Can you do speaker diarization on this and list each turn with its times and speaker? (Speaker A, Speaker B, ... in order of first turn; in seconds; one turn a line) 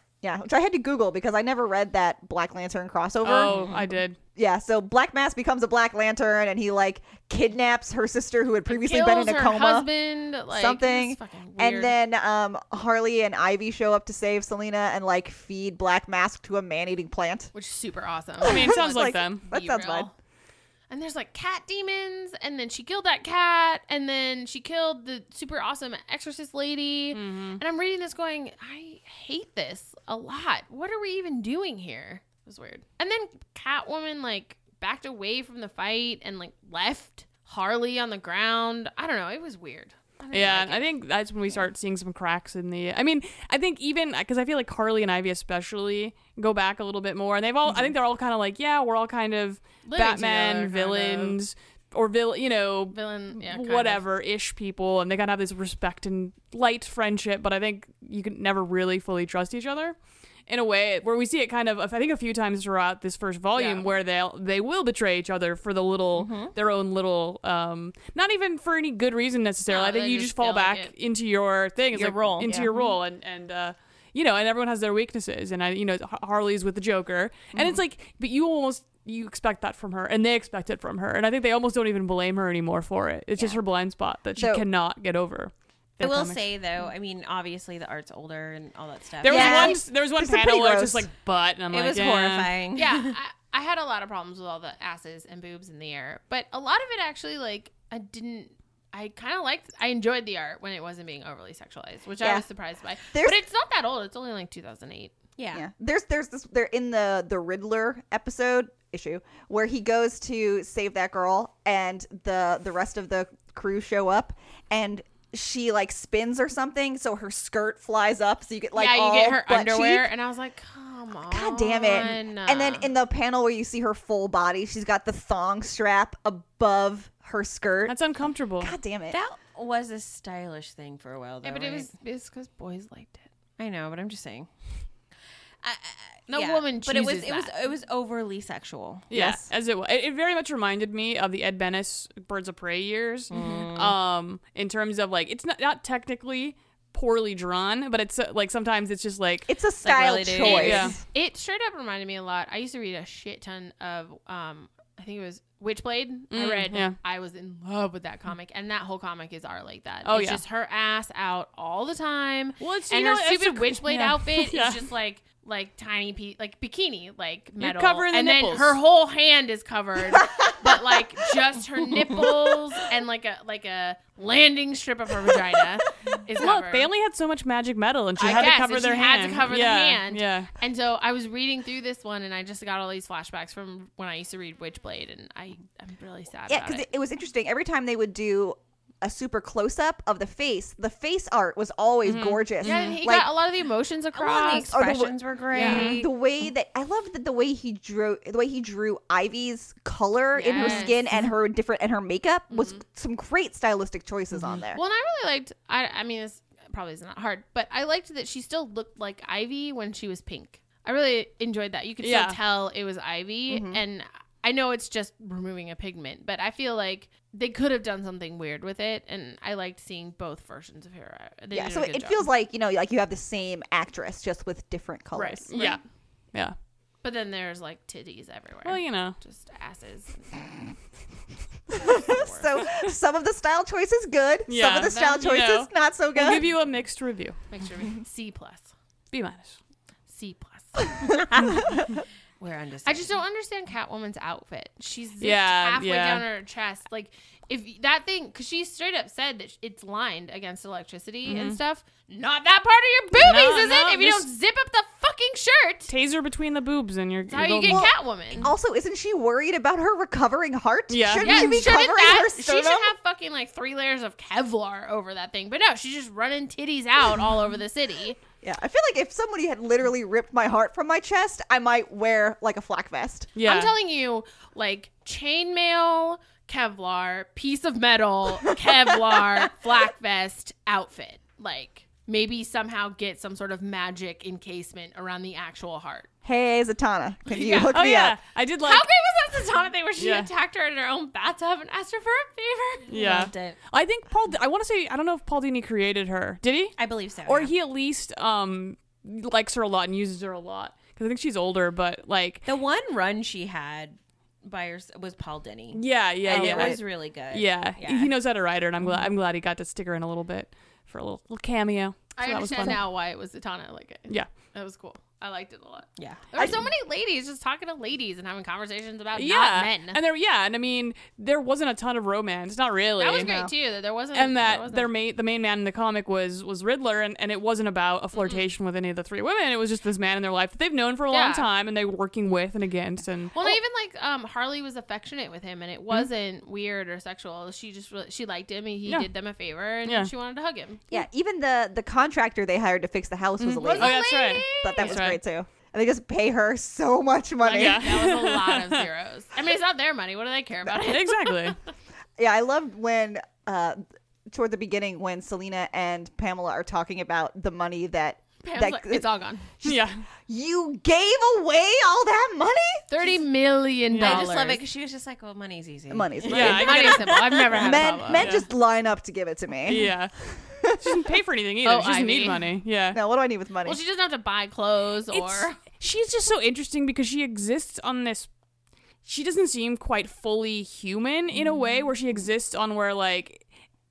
Speaker A: 0.2-3.7
Speaker B: 3.2-4.2
Speaker C: 3.4-3.9
Speaker A: 4.3-9.9
Speaker D: 8.7-12.0
Speaker A: 10.5-17.5
Speaker D: 17.5-20.1
Speaker A: 18.4-20.1
Speaker B: 18.4-19.4
Speaker D: 20.9-40.9
Speaker B: 27.1-27.6
Speaker B: 40.3-60.0
Speaker D: 49.8-51.4
Speaker D: 52.9-54.0
Speaker B: 60.5-86.4
Speaker D: 63.5-63.9
Speaker C: 66.1-66.5
Speaker D: 69.7-70.9
Speaker C: 71.9-72.7
Speaker A: 77.5-77.8
Speaker A: 84.3-84.6
Speaker C: 86.0-89.8
Speaker B: 89.2-92.5
Speaker A: 89.2-91.1
Speaker C: 91.7-93.1
Speaker D: 92.7-105.1
Speaker A: 103.1-103.4
Speaker C: 105.4-105.7
Speaker A: 105.5-120.1
Speaker D: 118.7-122.9
Speaker A: 121.3-128.0
Speaker B: 127.9-128.7
Speaker A: 128.6-129.2
Speaker C: 129.1-131.9
Speaker D: 131.4-133.3
Speaker C: 133.6-134.5
Speaker C: 135.6-139.1
Speaker D: 136.3-137.5
Speaker B: 139.1-149.5
Speaker A: 139.1-139.5
Speaker C: 143.3-143.9
Speaker A: 149.5-151.0
Speaker C: 149.8-151.0
Speaker D: 150.4-176.9
Speaker B: 150.5-150.9
Speaker B: 156.3-156.9
Speaker B: 160.0-160.4
Speaker B: 162.6-164.8
Speaker B: 167.6-168.8
Speaker A: 170.6-171.0
Speaker B: 176.4-180.5
Speaker D: 178.2-186.9
Speaker A: 186.5-193.3
Speaker B: 192.0-192.4
Speaker D: 192.6-194.8
Speaker A: 194.2-204.8
Speaker C: 194.2-196.1
Speaker D: 195.5-195.9
Speaker B: 195.6-195.9
Speaker D: 200.3-201.0
Speaker D: 202.5-202.8
Speaker D: 204.7-222.2
Speaker B: 212.0-212.4
Speaker A: 213.5-213.8
Speaker A: 221.5-225.7
Speaker D: 225.1-225.8
Speaker B: 225.5-225.8
Speaker D: 227.0-230.3
Speaker B: 228.6-229.2
Speaker A: 231.7-236.4
Speaker D: 231.7-232.6
Speaker B: 234.5-237.4
Speaker D: 234.9-235.3
Speaker D: 237.5-238.7
Speaker B: 239.1-239.6
Speaker D: 240.1-241.0
Speaker C: 241.2-241.7
Speaker A: 241.3-241.9
Speaker C: 242.4-243.2
Speaker D: 242.8-255.9
Speaker B: 245.2-246.2
Speaker B: 251.2-251.6
Speaker B: 253.2-254.3
Speaker B: 255.9-257.9
Speaker D: 257.3-258.5
Speaker A: 257.7-262.9
Speaker B: 260.9-261.5
Speaker D: 261.2-268.2
Speaker A: 268.4-273.3
Speaker B: 273.3-273.7
Speaker D: 273.4-286.1
Speaker A: 286.2-288.2
Speaker D: 287.3-287.8
Speaker B: 287.6-288.9
Speaker D: 288.6-293.1
Speaker B: 290.0-290.3
Speaker B: 292.9-302.4
Speaker C: 292.9-293.6
Speaker C: 296.8-297.5
Speaker C: 302.4-308.1
Speaker B: 305.7-312.8
Speaker A: 306.2-306.8
Speaker D: 312.1-320.0
Speaker C: 316.0-316.3
Speaker A: 316.4-316.7
Speaker B: 319.1-323.4
Speaker D: 323.0-324.9
Speaker A: 323.2-323.5
Speaker B: 324.1-333.4
Speaker D: 328.1-328.4
Speaker D: 331.1-331.4
Speaker D: 333.3-340.8
Speaker B: 339.8-340.1
Speaker A: 340.9-347.9
Speaker B: 343.4-345.2
Speaker D: 343.6-345.0
Speaker D: 347.4-351.6
Speaker B: 347.5-348.8
Speaker B: 350.8-351.6
Speaker A: 352.2-362.8
Speaker D: 358.4-359.4
Speaker B: 359.6-360.0
Speaker D: 362.9-364.6
Speaker B: 363.9-364.3
Speaker C: 364.0-367.8
Speaker A: 365.9-367.0
Speaker B: 366.3-367.1
Speaker D: 366.3-368.3
Speaker A: 367.5-369.9
Speaker B: 368.1-368.5
Speaker B: 369.6-370.1
Speaker B: 370.7-373.0
Speaker D: 371.6-372.4
Speaker A: 372.9-373.8
Speaker D: 373.6-375.6
Speaker B: 375.1-378.3
Speaker B: 379.0-383.4